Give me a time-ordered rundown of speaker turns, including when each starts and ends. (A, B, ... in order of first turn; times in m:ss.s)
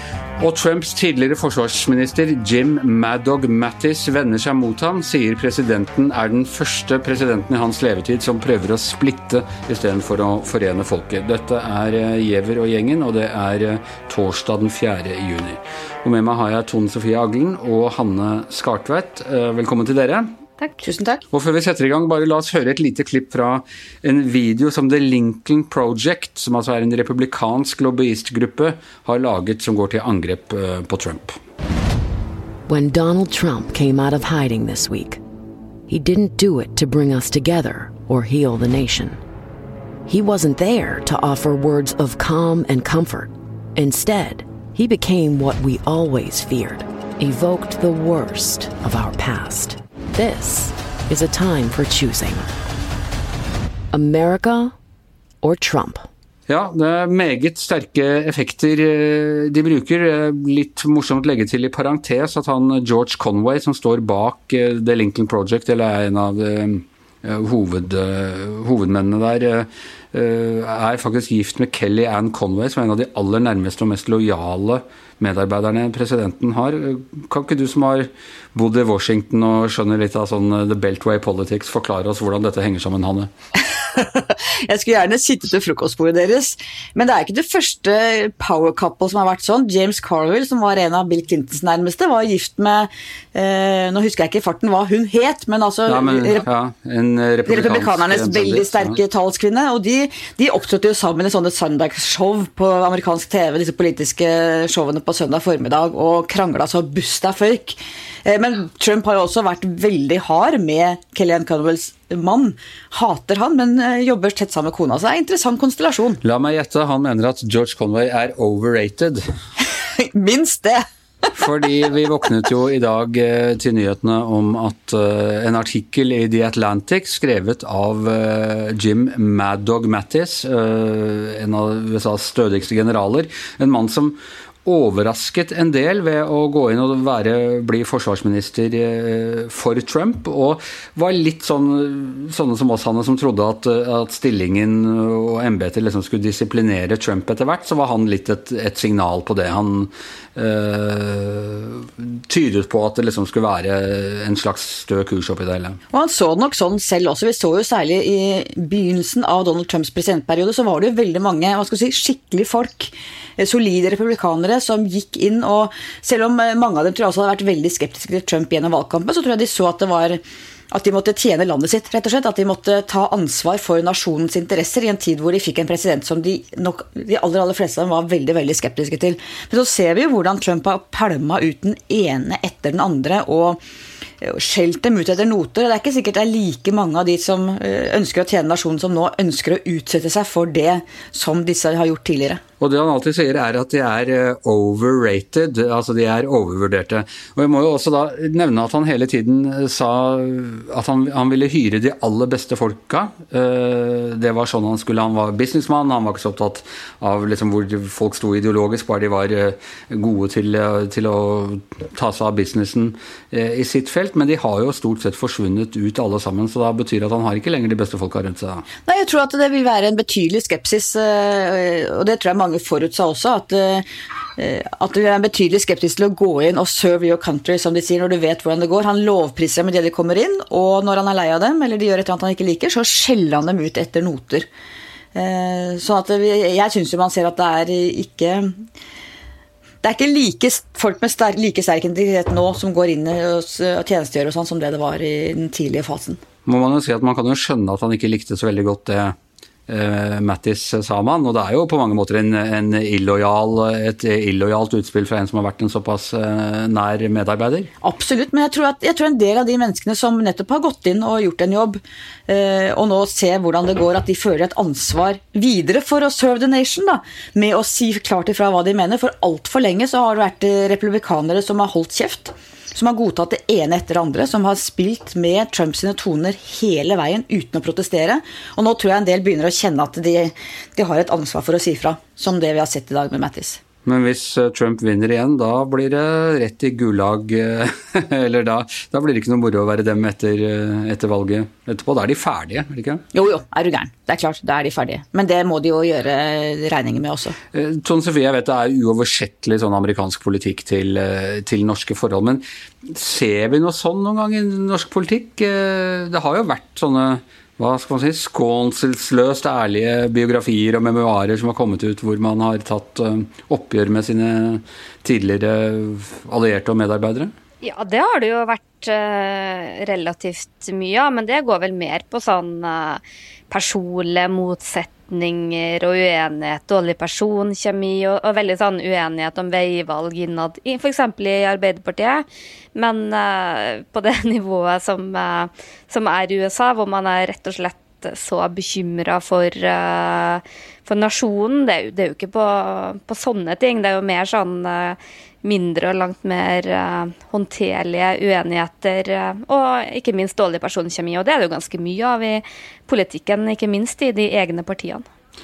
0:00.4-0:20.3 A
0:20.8-0:21.2 B
0:21.3-0:31.4 A
0:32.7-0:35.2 C
0:35.9-0:39.2 C
0:40.1-0:52.5 C
0:53.9-0:54.8 C
0:55.4-0:56.1 C
0:56.5-1:23.3 A
1:23.6-1:36.4 B
1:35.9-1:39.0 A
1:37.5-1:56.2 B
1:56.2-1:59.2 A
2:00.0-2:01.9 B
2:01.4-2:35.8 A
2:35.9-3:03.6 B
3:04.2-3:12.4 B
3:12.6-3:38.6 A
3:38.9-3:43.9 B
3:44.4-3:54.5 B
3:55.1-3:58.5 B
3:59.8-4:06.2 B
4:06.5-4:09.2 A
4:09.7-4:17.7 A
4:17.8-4:43.6 B
4:43.8-4:53.0 A
4:53.1-4:57.4 B
4:57.5-5:17.3 A
5:17.6-5:55.0 D